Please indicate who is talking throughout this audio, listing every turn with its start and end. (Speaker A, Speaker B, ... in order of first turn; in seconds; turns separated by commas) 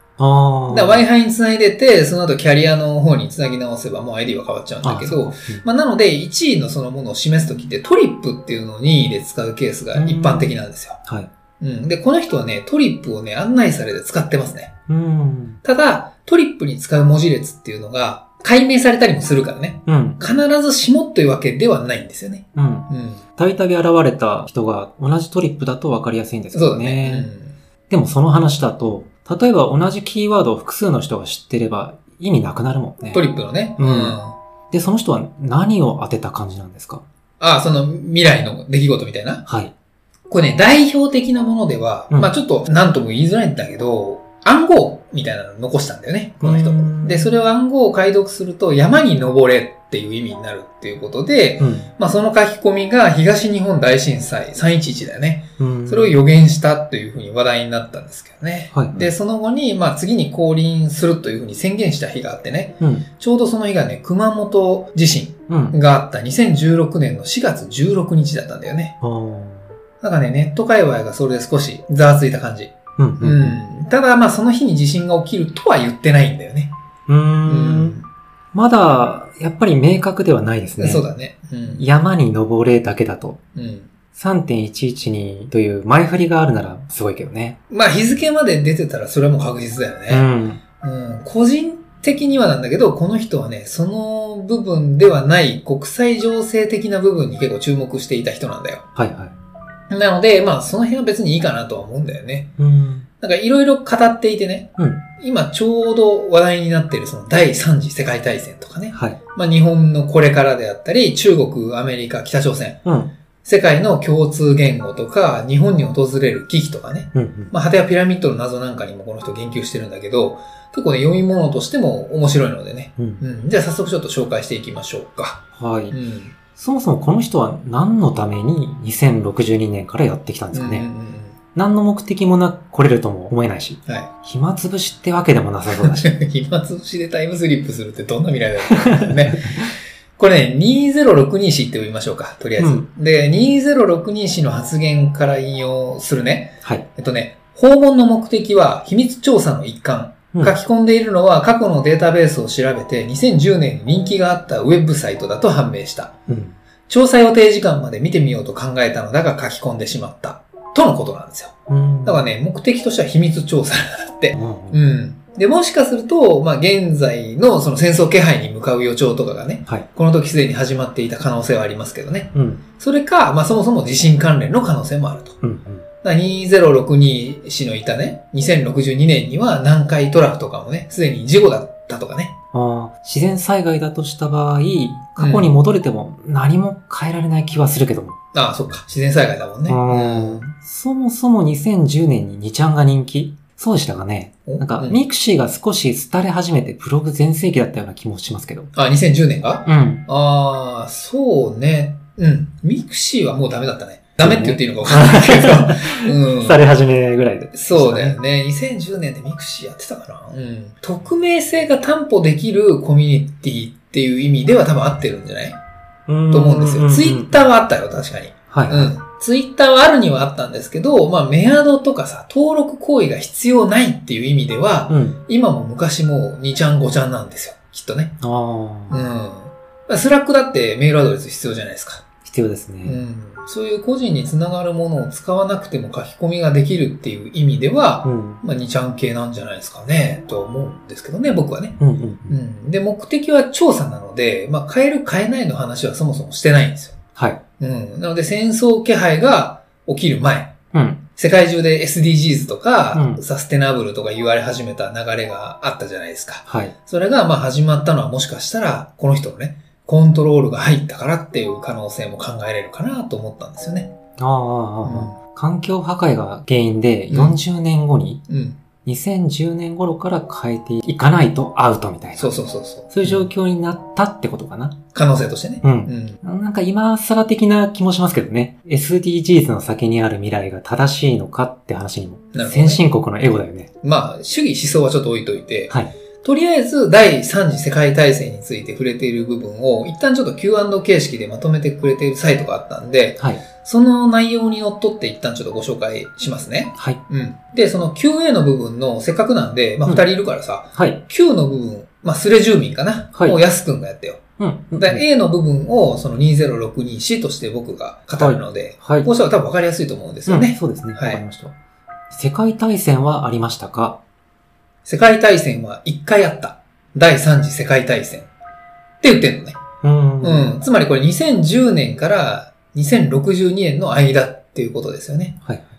Speaker A: 0.2-1.1, Speaker B: 0.7-11.0, Speaker A: 4.8-5.7, Speaker A: 9.9-10.5, Speaker A: 11.1-11.3, Speaker B: 11.6-14.8, Speaker A: 14.9-15.6, Speaker B: 15.6-23.2, Speaker A: 19.9-20.2, Speaker A: 22.6-27.3, Speaker B: 26.5-27.6, Speaker A: 27.9-33.2, Speaker B: 33.1-34.4, Speaker A: 33.8-34.2, Speaker A: 34.7-37.0, Speaker B: 37.4-39.5, Speaker A: 39.5-39.7, Speaker B: 40.3-69.0, Speaker A: 46.4-47.3, Speaker A: 51.6-51.9, Speaker A: 55.6-56.2, Speaker A: 58.7-59.1, Speaker A: 62.8-63.1, Speaker A: 65.5-65.8, Speaker A: 69.0-69.8, Speaker B: 70.0-76.7, Speaker A: 73.0-73.6, Speaker A: 77.1-78.0, Speaker B: 77.5-78.1, Speaker A: 78.5-81.1, Speaker B: 80.8-81.9, Speaker A: 81.8-83.4, Speaker B: 83.5-83.9, Speaker A: 84.2-87.6, Speaker B: 87.7-90.3, Speaker A: 90.1-90.6, Speaker B: 90.8-98.8, Speaker A: 99.0-99.3, Speaker B: 99.9-102.5, Speaker A: 102.6-103.1, Speaker B: 103.2-112.8, Speaker A: 104.8-105.0, Speaker A: 108.9-109.2, Speaker A: 112.8-113.1, Speaker B: 113.5-126.4, Speaker A: 117.1-117.5, Speaker A: 125.5-126.0, Speaker A: 126.5-130.9, Speaker B: 130.5-131.4, Speaker A: 131.6-136.1, Speaker B: 135.7-156.2, Speaker A: 138.7-139.7, Speaker A: 142.6-142.9, Speaker A: 156.3-156.6, Speaker B: 156.9-175.4, Speaker A: 161.7-162.3, Speaker A: 164.3-164.8, Speaker A: 172.3-172.6, Speaker A: 175.4-175.8, Speaker B: 176.0-182.3, Speaker A: 182.5-188.2, Speaker B: 185.2-185.6, Speaker B: 188.3-190.5, Speaker A: 189.7-198.7, Speaker B: 194.5-195.0, Speaker B: 198.8-206.6, Speaker A: 199.7-200.0, Speaker A: 204.2-208.2, Speaker B: 207.5-215.6, Speaker A: 216.1-217.5, Speaker B: 216.3-228.2, Speaker A: 218.5-218.9, Speaker A: 224.9-225.2, Speaker A: 228.2-229.1, Speaker B: 228.9-232.1, Speaker A: 232.2-233.0, Speaker B: 232.8-247.0, Speaker A: 238.0-238.4, Speaker A: 241.8-242.4, Speaker A: 247.2-247.4, Speaker B: 247.6-250.6, Speaker A: 250.7-251.0, Speaker B: 251.2-263.9, Speaker A: 252.9-253.2, Speaker A: 256.5-256.7, Speaker A: 264.2-268.2, Speaker B: 264.8-265.2, Speaker B: 267.1-267.4, Speaker B: 268.3-268.6, Speaker A: 268.8-272.3, Speaker B: 272.2-273.3, Speaker A: 272.9-274.8, Speaker B: 274.9-276.2, Speaker A: 275.6-283.7, Speaker B: 282.3-282.8, Speaker B: 283.8-311.2, Speaker A: 300.8-301.0, Speaker A: 303.1-303.4, Speaker A: 304.4-305.0, Speaker A: 308.2-309.1, Speaker A: 310.3-311.6, Speaker A: 312.1-314.0, Speaker B: 314.9-318.3, Speaker B: 319.0-319.6, Speaker A: 319.8-320.5, Speaker B: 320.2-325.4